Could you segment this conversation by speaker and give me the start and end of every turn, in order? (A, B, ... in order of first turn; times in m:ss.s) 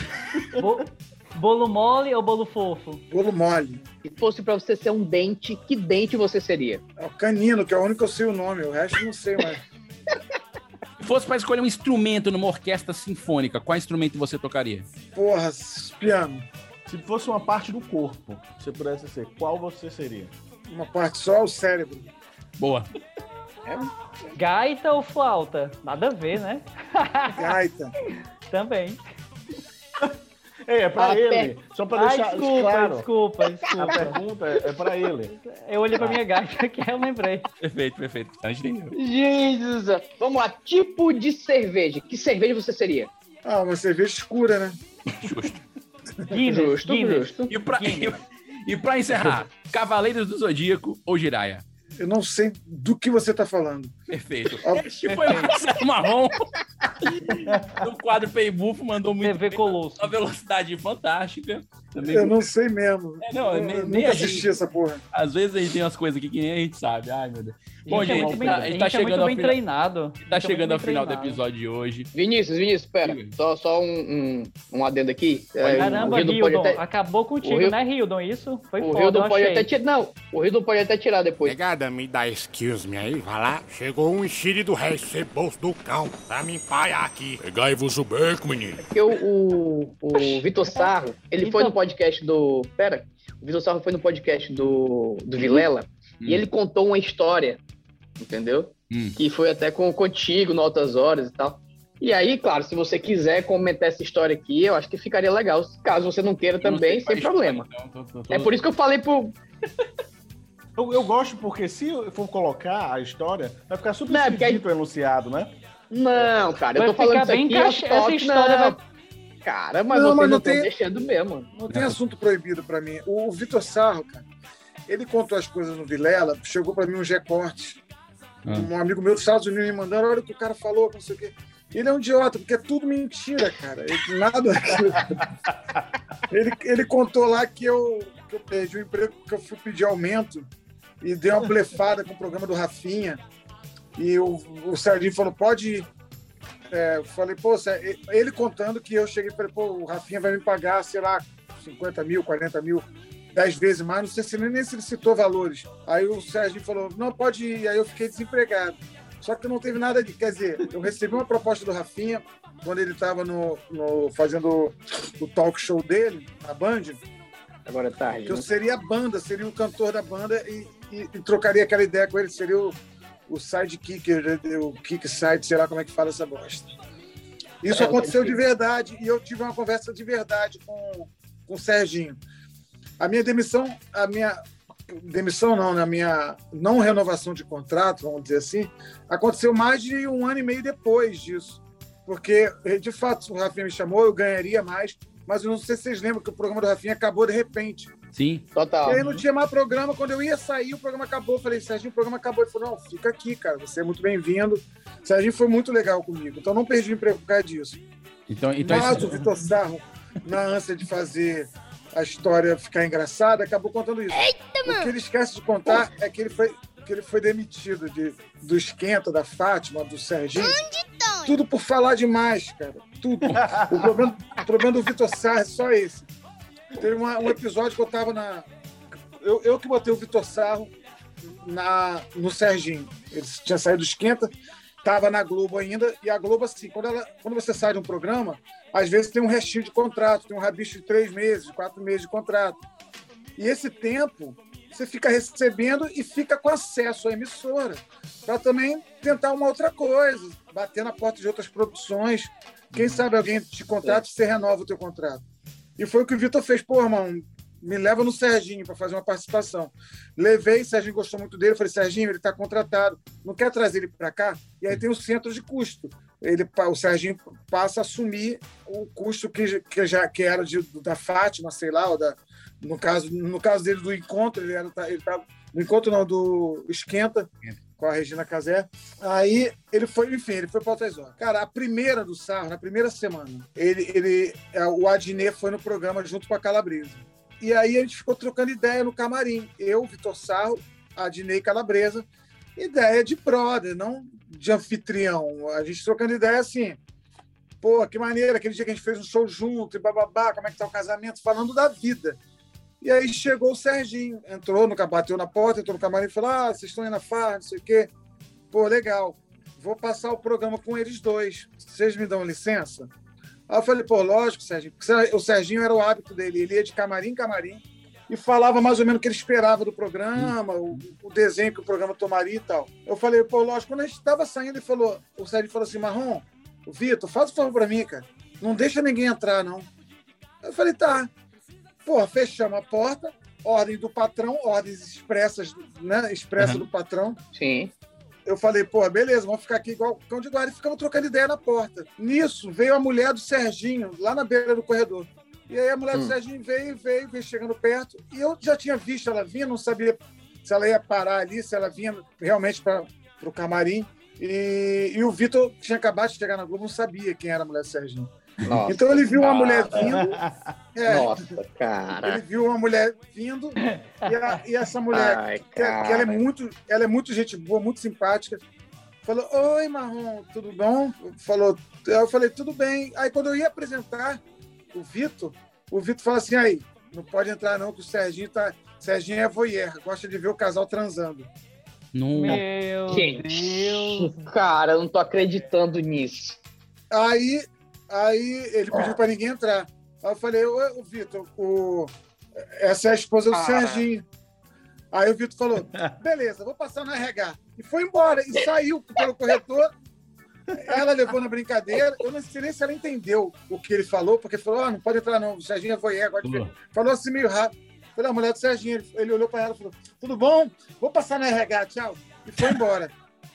0:00.6-0:03.0 A
0:03.1-0:03.8 B
0:04.0-0:06.8 C
0:07.0-0:09.6 B
0:11.0-0:14.8 D
0:15.1-0:16.4 B
0:16.9-0:20.3 E
0:20.7-0:22.1 B
0:22.6-0:22.9 D
0:24.4-0:27.4 A
0:27.3-0:27.9 B
0:28.5-0:29.0 A
0:30.6-0:33.1 E
0:31.0-0:31.5 C
0:31.9-0:34.2 A
0:33.7-0:35.3 E
0:35.4-0:37.5 A
0:37.6-0:39.0 D
0:38.9-0:43.1 C
0:43.4-0:44.8 B
0:45.2-0:45.6 D
0:46.3-0:48.1 A
0:46.5-0:47.5 C
0:47.5-0:51.6 D
0:52.0-0:53.9 B
0:54.1-0:56.4 D
0:54.6-0:54.9 B
0:57.0-1:02.4 D
0:57.3-0:57.8 E
0:59.2-1:00.1 A
1:02.1-1:05.0 B
1:03.2-1:04.5 D
1:05.1-1:09.6 D
1:07.8-1:08.7 E
1:07.9-1:11.4 A
1:10.2-1:12.1 D
1:12.1-1:16.8 C
1:13.0-1:13.4 D
1:15.6-1:16.1 D
1:15.8-1:19.7 A
1:17.4-1:17.7 C
1:18.8-1:21.6 C
1:21.4-1:28.8 F
1:28.8-1:37.6 C
1:30.1-1:31.8 A
1:38.2-1:47.7 C
1:38.9-1:39.2 D
1:46.6-1:48.6 D
1:48.3-1:49.3 C
1:50.8-1:55.6 E
1:54.1-1:54.6 C
1:55.9-1:58.8 C
1:56.8-1:58.8 A
1:59.4-2:01.5 C
1:59.9-2:00.7 B
2:01.5-2:04.2 B
2:01.7-2:02.0 D
2:04.9-2:07.8 B
2:08.5-2:15.3 B
2:16.3-2:20.5 B
2:21.0-2:23.2 B
2:24.0-2:25.9 B
2:26.7-2:47.0 B
2:47.6-2:48.5 C
2:48.3-2:52.8 B
2:53.3-2:56.7 B
2:57.6-3:02.2 B
2:57.7-2:58.4 C
3:03.0-3:04.4 B
3:04.9-3:17.9 B
3:18.1-3:19.2 D
3:18.5-3:19.0 C
3:18.8-3:27.8 B
3:28.3-3:29.3 D
3:28.6-3:40.6 B
3:41.2-3:46.1 B
3:43.2-3:43.5 D
3:43.4-3:43.9 E
3:46.8-3:48.5 B
3:49.2-3:50.7 B
3:51.2-3:54.3 B
3:54.8-4:02.6 B
4:03.4-4:15.2 B
4:15.8-4:52.0 B
4:52.6-4:56.8 B
4:57.6-5:02.2 B
5:02.8-5:07.9 B
5:08.5-5:12.9 B
5:13.5-5:29.7 B
5:30.4-5:31.1 B
5:31.8-5:37.2 B
5:36.4-5:36.6 D
5:37.3-5:37.7 C
5:38.2-5:58.1 B
5:58.4-6:00.0 C
5:58.6-6:00.2 B
5:59.8-6:00.5 E
6:00.7-6:01.1 B
6:00.8-6:02.2 C
6:02.0-6:08.4 B
6:03.6-6:04.3 A
6:04.9-6:06.2 C
6:09.0-6:14.2 B
6:14.7-6:21.3 B
6:21.9-6:22.4 D
6:22.1-6:24.3 A
6:22.9-6:26.4 C
6:26.9-6:34.0 B
6:28.7-6:29.0 C
6:33.3-6:33.9 C
6:34.9-6:39.7 B
6:40.6-6:52.9 B
6:46.2-6:46.5 E